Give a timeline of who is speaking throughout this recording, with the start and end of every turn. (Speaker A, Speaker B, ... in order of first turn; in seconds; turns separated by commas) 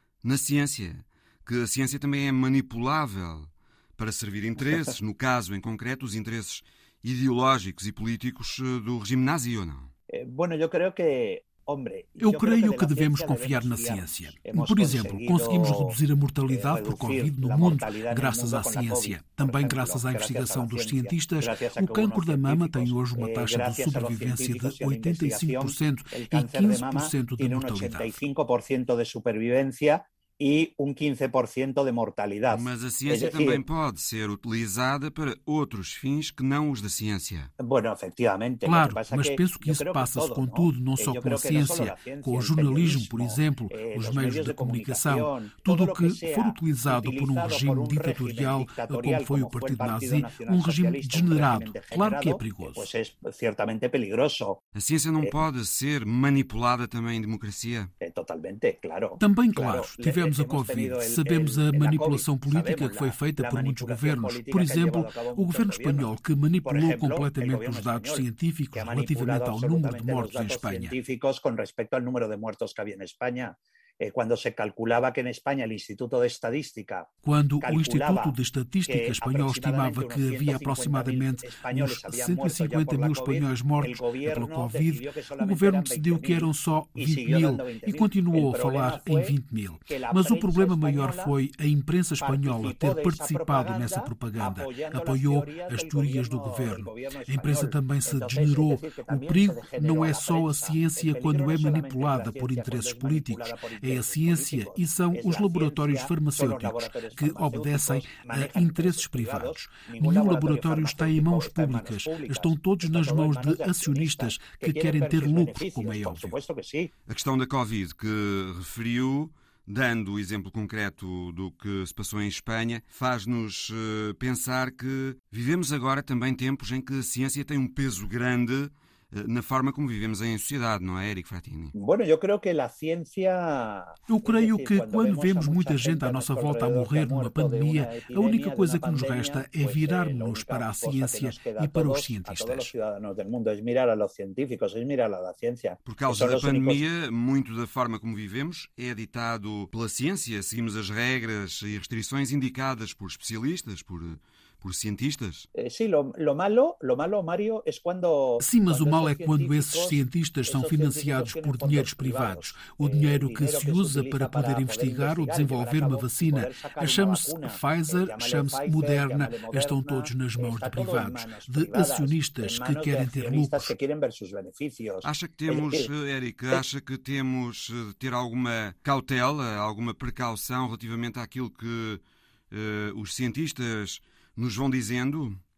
Speaker A: 0.2-9.9, Speaker B: 10.1-16.0, Speaker C: 12.2-28.1, Speaker B: 16.5-33.6, Speaker A: 32.5-37.5, Speaker B: 37.6-54.6, Speaker C: 38.6-52.9, Speaker A: 54.7-57.9, Speaker B: 58.0-66.1, Speaker C: 59.2-70.9, Speaker B: 66.6-77.1, Speaker C: 77.2-116.3, Speaker B: 77.6-89.3, Speaker B: 89.9-91.3, Speaker B: 92.2-116.9, Speaker A: 117.1-131.7, Speaker B: 131.7-146.8, Speaker C: 134.1-142.7, Speaker A: 145.8-155.5, Speaker B: 155.6-175.9, Speaker C: 158.4-173.7, Speaker A: 175.0-185.4